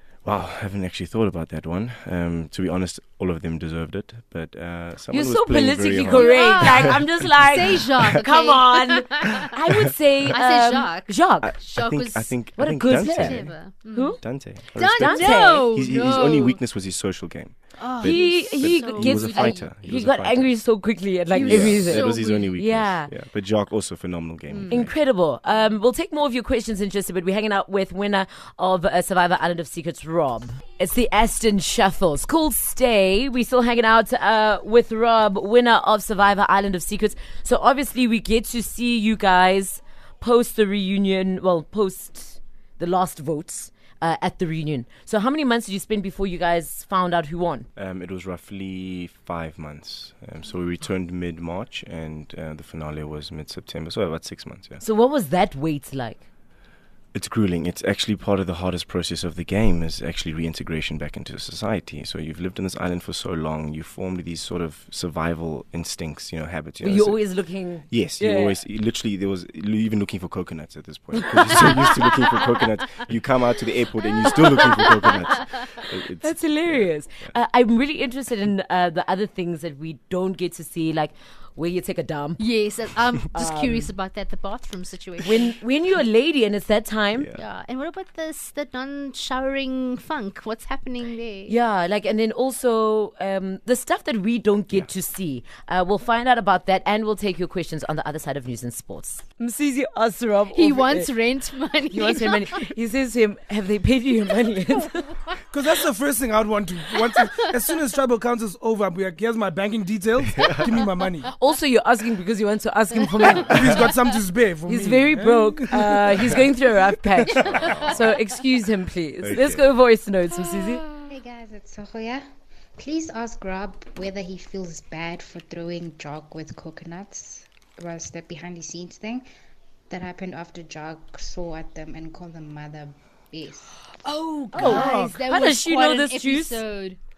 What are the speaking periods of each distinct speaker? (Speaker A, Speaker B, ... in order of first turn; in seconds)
Speaker A: 0.2-7.0, 11.4-13.6, 14.2-20.5, 21.4-24.9, 47.8-54.8, 57.1-67.2, 67.9-77.3, 87.1-87.4, 110.3-110.6, 117.4-118.0, 119.2-119.7
Speaker B: 5.1-11.5, 12.6-14.2, 14.9-15.7, 18.0-23.1, 24.7-47.7, 54.8-56.2, 66.8-68.6, 71.5-71.9, 76.2-82.4, 83.3-83.9, 85.2-87.3, 91.5-101.1, 101.9-105.1, 111.4-113.8, 114.7-120.8, 134.6-136.6
Speaker C: 6.1-9.5, 10.3-14.2, 14.8-16.6, 17.8-19.7, 21.3-22.5, 24.5-24.9, 82.4-85.5, 87.4-91.6, 100.5-102.6, 117.3-117.9, 120.5-121.1, 134.0-137.0
Speaker D: 105.5-111.3, 113.2-116.5, 134.5-135.2
Speaker E: 121.1-122.2, 122.8-129.2, 129.9-133.8, 134.6-135.0